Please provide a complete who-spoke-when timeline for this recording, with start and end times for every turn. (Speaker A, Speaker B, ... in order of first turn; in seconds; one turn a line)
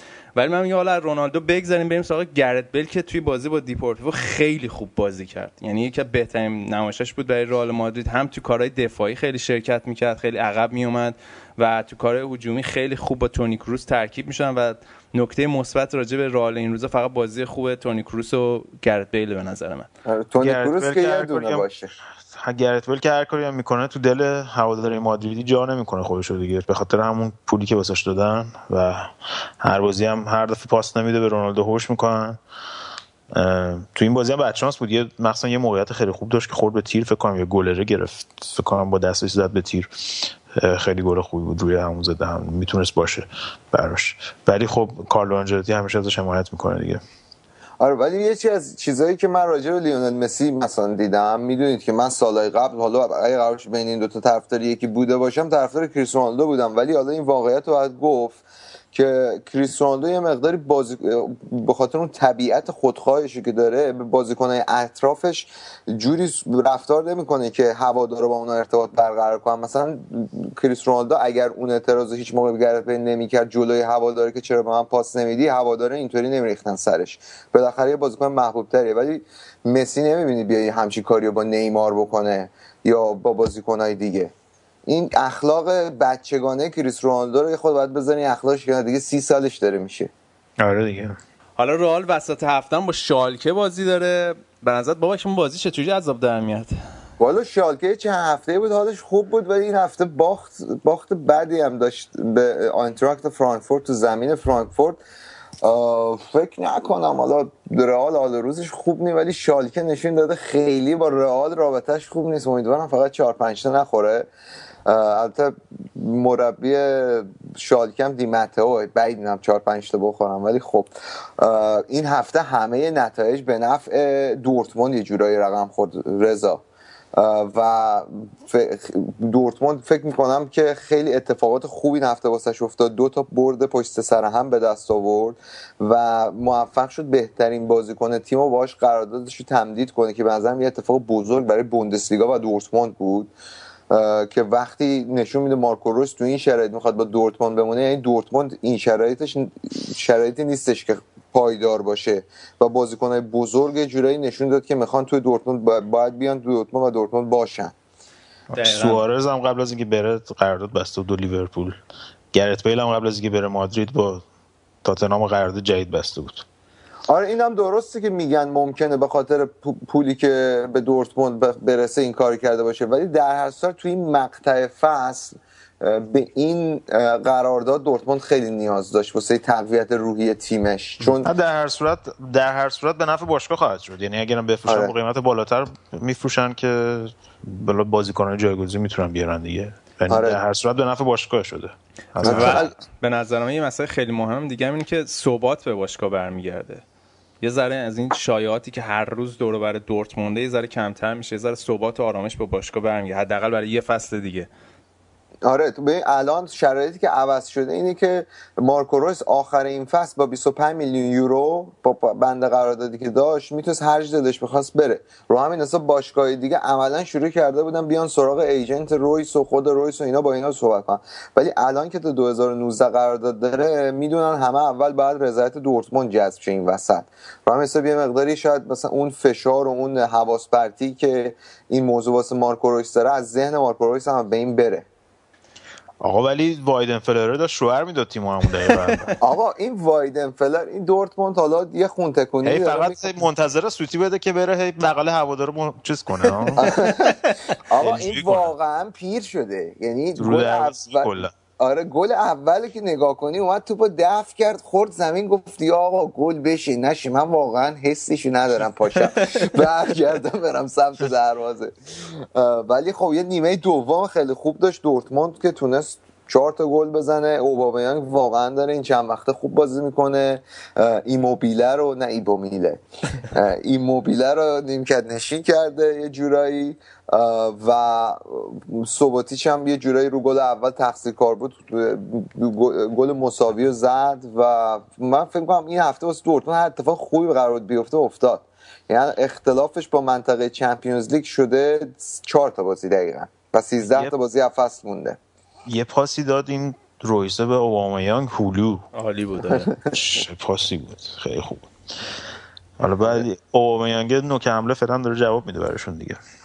Speaker A: 0.3-19.9
Speaker B: 20.1-21.9
Speaker C: 20.4-21.6
Speaker C: 22.3-32.4
Speaker C: 33.3-47.0
Speaker B: 47.8-58.4
Speaker B: 58.9-84.3
Speaker B: 84.9-90.1
Speaker C: 90.6-91.2
Speaker A: 91.6-96.7
Speaker B: 97.2-105.0
Speaker B: 105.6-114.3
Speaker B: 114.8-126.6
Speaker B: 127.1-143.3
Speaker B: 143.9-157.7
Speaker C: 158.5-161.8
Speaker A: 158.6-159.0
Speaker C: 162.3-164.2
Speaker C: 164.8-166.4
Speaker B: 167.1-181.3
Speaker C: 181.2-192.6
Speaker B: 184.7-184.9
Speaker B: 190.1-190.4
Speaker A: 192.2-196.8
Speaker B: 192.2-192.7
Speaker A: 197.4-204.5
Speaker B: 205.4-234.9
Speaker C: 236.0-239.1
Speaker A: 238.9-239.1
Speaker B: 239.2-243.1
Speaker C: 242.4-246.7
Speaker A: 246.4-247.5
Speaker B: 246.6-247.2
Speaker B: 247.7-295.2
Speaker C: 247.8-248.5
Speaker C: 250.2-251.3
Speaker A: 259.0-259.5
Speaker C: 295.7-298.8
Speaker A: 298.9-299.7
Speaker C: 299.9-301.7
Speaker C: 302.8-306.2